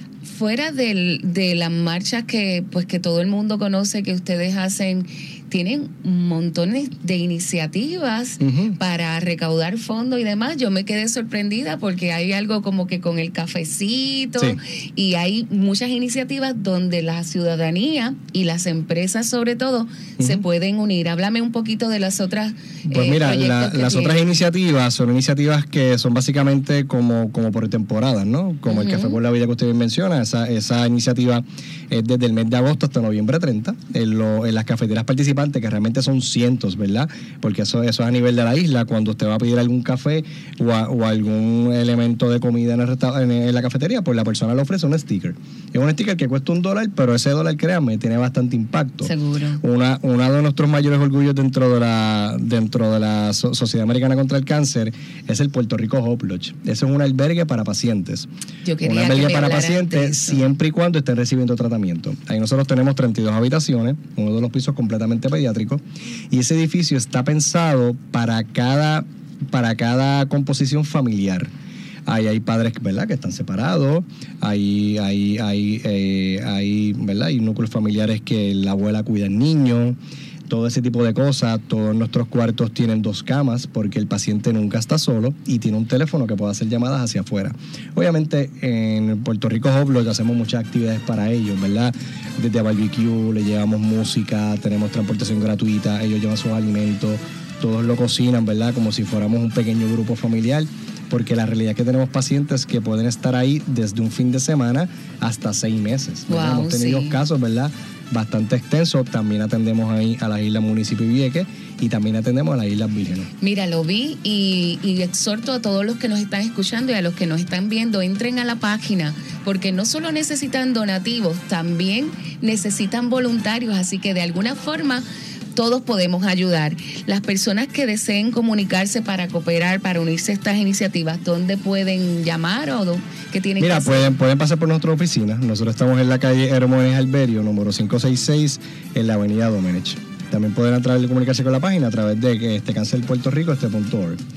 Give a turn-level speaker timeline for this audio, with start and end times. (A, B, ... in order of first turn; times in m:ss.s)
0:00.2-0:24.2 A
0:08.4-0:08.7 B
0:20.2-0:20.4 B
0:22.9-0:58.2 B
0:28.7-0:29.2 A
0:49.0-0:49.6 A
0:58.6-1:00.4 A
0:58.8-1:11.5 B
1:12.1-1:20.0 B
1:20.5-1:53.3 B
1:46.3-1:47.2 A
1:53.4-2:14.2 A
2:13.6-2:24.2 B